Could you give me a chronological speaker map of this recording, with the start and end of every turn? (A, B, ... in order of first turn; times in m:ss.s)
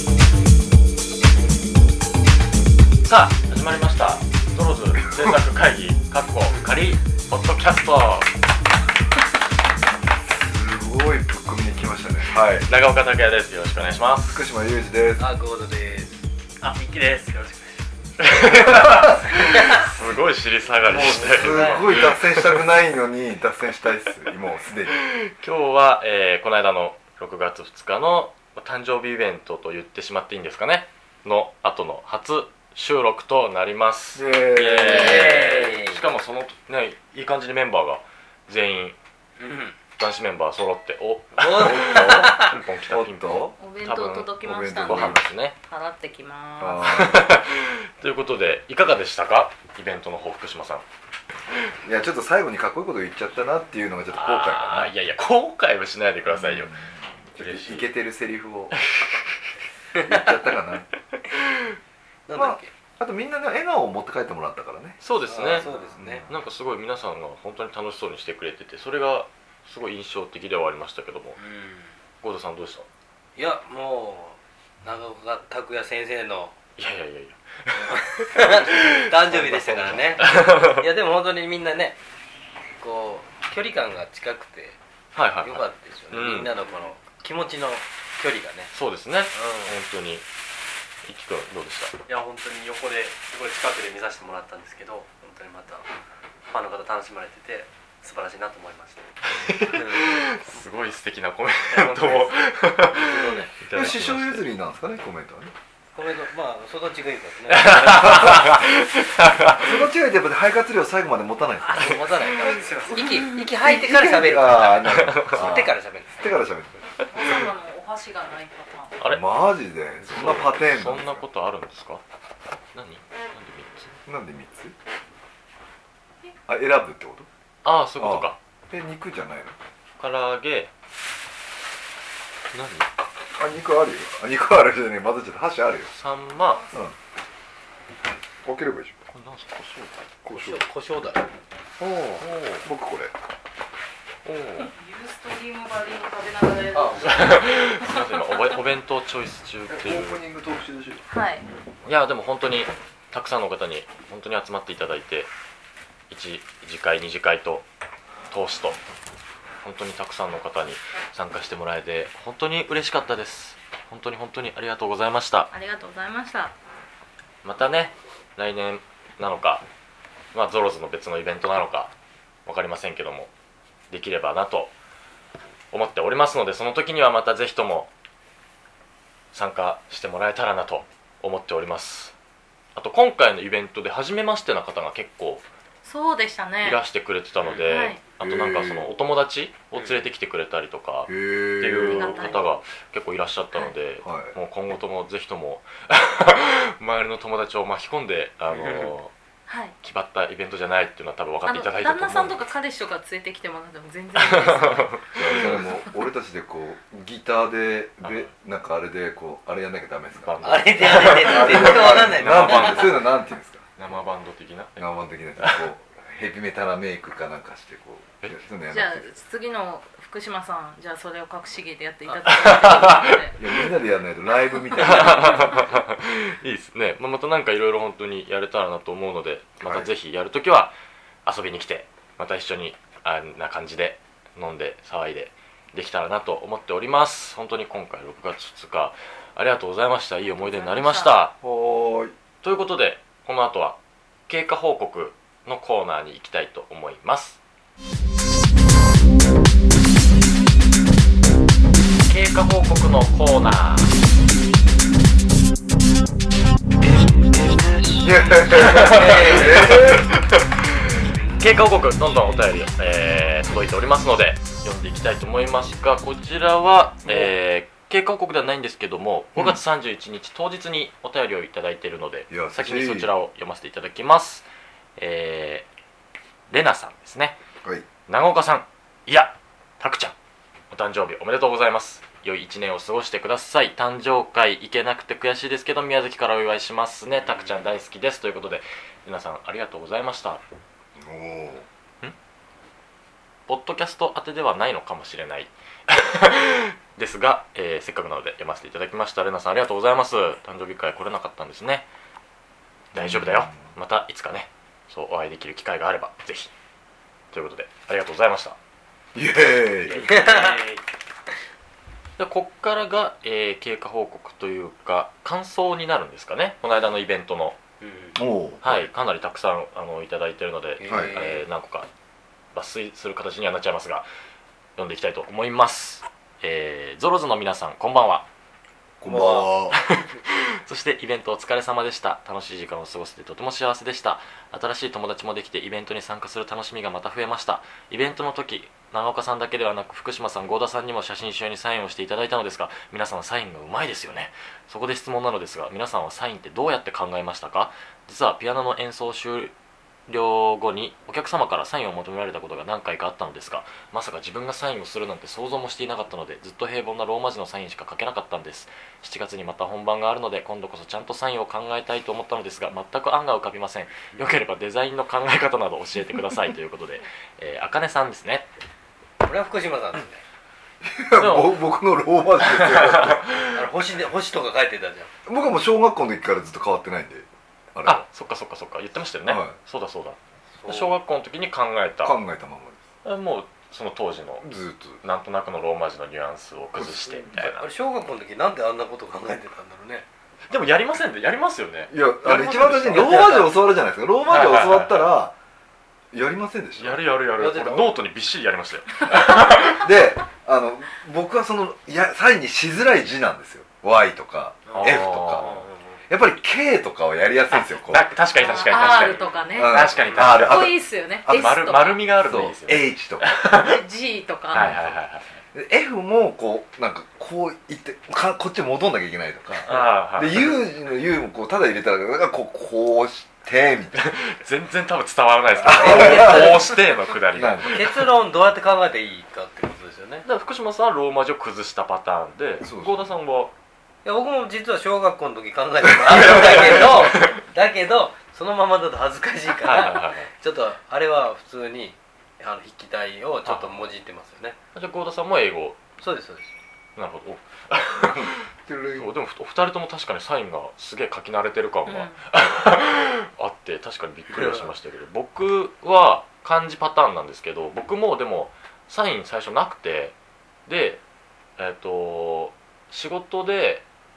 0:03.0-0:08.3 A
0:10.1-0:12.7 B
0:12.6-0:14.4 A
0:14.2-0:15.3 B
0:15.2-0:16.2 C
0:16.6-0:17.8 D
0:18.2-0:22.6 A
0:19.1-0:19.9 C
0:20.8-0:25.0 B
0:20.9-0:22.1 C
0:24.9-0:39.0 A
0:34.1-0:35.7 B
0:34.8-0:36.0 C
0:39.4-0:39.8 C
0:40.0-0:45.6 A
0:41.4-0:42.6 C
0:41.6-0:43.6 B
0:43.6-0:46.9 E
0:44.4-0:45.2 B
0:46.6-0:47.3 B
0:46.9-0:50.8 A
0:51.8-0:54.9 B
0:54.1-0:56.8 A
0:56.3-0:58.8 B
0:57.3-0:57.9 A
0:58.8-0:59.4 A
1:00.0-1:00.9 B
1:01.3-1:01.7 A
1:02.3-1:02.7 C
1:02.3-1:05.0 B
1:05.0-1:05.7 A
1:05.2-1:06.2 C
1:05.6-1:06.3 B
1:06.2-1:11.4 A
1:11.4-1:11.9 C
1:12.2-1:12.9 A
1:13.4-1:16.6 C
1:16.8-1:19.1 A
1:18.2-1:22.0 C
1:19.3-1:20.3 B
1:20.2-1:20.9 A
1:22.8-1:24.8 C
1:25.1-1:26.5 A
1:25.4-1:28.7 C
1:28.7-1:30.2 A
1:29.3-1:29.8 C
1:31.0-1:31.9 A
1:32.1-1:35.9 D
1:36.5-1:39.1 D
1:39.3-1:44.5 A
1:39.7-1:40.0 C
1:41.7-1:42.5 D
1:42.9-1:43.5 C
1:43.7-1:45.5 B
1:45.9-1:48.4 C
1:47.5-1:49.8 A
1:47.8-1:48.6 B
1:49.5-1:52.1 B
1:51.6-1:56.3 C
1:52.9-1:56.8 B
1:53.0-1:53.5 E
1:54.8-1:55.4 A
1:57.0-1:57.4 A
1:57.1-1:59.0 E
1:59.0-2:01.2 B
2:00.0-2:02.0 A
2:02.7-2:03.9 A
2:04.1-2:04.7 B
2:06.5-2:07.3 B
2:07.6-2:08.4 A
2:08.0-2:09.6 B
2:10.0-2:10.7 A
2:12.5-2:12.9 A
2:13.4-2:15.9 B
2:15.9-2:16.6 A
2:18.4-2:18.9 B
2:19.1-2:20.0 A
2:20.2-2:20.6 B
2:20.3-2:21.2 C
2:21.8-2:22.7 A
2:22.6-2:23.1 B
2:24.2-2:24.7 A
2:24.7-2:28.0 E
2:27.0-2:30.2 A
2:29.7-2:31.0 B
2:31.1-2:31.4 E
2:31.8-2:35.3 A
2:36.1-2:37.6 A
2:38.3-2:38.8 A
2:39.6-2:45.5 A
2:45.5-2:46.5 E
2:47.4-2:49.6 A
2:50.3-2:51.9 A
2:52.4-2:53.3 A
2:53.9-2:54.7 A
2:55.7-2:57.9 A
2:59.3-3:02.1 A
3:02.7-3:05.4 A
3:05.8-3:06.8 E
3:06.6-3:19.1 A
3:07.7-3:08.0 E
3:08.2-3:08.9 B
3:11.1-3:12.4 B
3:11.7-3:12.4 E
3:14.0-3:14.4 B
3:18.5-3:18.9 C
3:19.5-3:19.7 E
3:19.8-3:22.4 A
3:21.4-3:25.8 E
3:24.2-3:25.6 A
3:25.2-3:33.7 B
3:28.0-3:28.3 A
3:30.2-3:33.0 A
3:30.4-3:32.9 C
3:33.8-3:35.7 A
3:34.8-3:39.1 B
3:38.7-3:43.4 E
3:42.2-3:43.3 A
3:43.3-3:45.6 B
3:44.7-4:01.4 A
3:49.6-3:49.9 B
4:00.2-4:01.2 E
4:01.4-4:02.1 B
4:02.4-4:07.4 A
4:12.1-4:13.9 A
4:17.4-4:20.0 C
4:18.0-4:20.1 B
4:18.5-4:34.4 A
4:21.0-4:21.6 C
4:27.0-4:27.3 B
4:29.3-4:29.6 B
4:32.3-4:33.1 B
4:35.0-4:35.6 A
4:36.5-4:37.4 A
4:38.1-4:40.1 A
4:40.7-4:50.4 A
4:47.2-4:47.6 C
4:51.0-4:51.6 B
4:53.5-5:01.8 A
5:02.9-5:03.7 B
5:02.9-5:06.5 A
5:07.3-5:08.6 A
5:09.1-5:10.1 B
5:09.8-5:10.6 A
5:10.0-5:10.8 C
5:12.2-5:17.6 A
5:17.8-5:18.2 C
5:18.1-5:18.9 B
5:18.6-5:21.9 A
5:20.8-5:21.4 C
5:20.9-5:21.2 B
5:22.5-5:24.1 A
5:24.8-5:28.2 A
5:29.0-5:29.8 B
5:29.0-5:29.5 C
5:29.7-5:49.5 A
5:50.1-6:08.4 A
6:09.2-6:10.2 C
6:10.8-6:13.2 B
6:11.2-6:11.7 A
6:12.4-6:13.6 A
6:13.5-6:15.1 C
6:15.2-6:18.0 B
6:17.8-6:22.2 A
6:19.2-6:19.6 B
6:20.6-6:21.0 C
6:22.0-6:22.8 B
6:23.0-6:24.5 A
6:24.4-6:25.0 B
6:25.0-6:27.6 A
6:26.7-6:27.6 B
6:27.5-6:30.0 C
6:30.5-6:33.5 A
6:31.9-6:35.3 B
6:33.0-6:33.4 C
6:34.3-6:35.2 A
6:36.1-6:37.0 B
6:36.8-6:39.9 A
6:37.4-6:37.9 C
6:39.1-6:45.6 B
6:44.7-6:46.0 C
6:44.7-6:45.6 A
6:46.1-6:48.1 B
6:47.8-6:50.7 A
6:48.4-6:52.0 E
6:49.0-6:51.6 B
6:50.0-6:50.3 C
6:51.3-6:53.8 A
6:52.2-6:53.3 B
6:53.5-6:54.6 E
6:54.5-6:55.4 A
6:54.5-6:55.0 B
6:55.5-7:04.0 B
6:59.6-7:00.5 A
7:03.9-7:08.0 A
7:05.6-7:06.7 B
7:05.6-7:06.8 C
7:07.3-7:08.0 B
7:07.7-7:10.2 C
7:10.2-7:13.5 A
7:12.6-7:13.1 B
7:14.0-7:24.6 C
7:16.0-7:17.0 B
7:16.2-7:17.3 A
7:19.6-7:20.3 A
7:23.4-7:23.9 A
7:24.7-7:25.8 A
7:26.0-7:26.5 C
7:27.0-7:40.1 A
7:27.9-7:29.1 B
7:31.8-7:32.2 E
7:34.3-7:34.7 C
7:40.7-7:41.0 A
7:41.6-7:43.8 A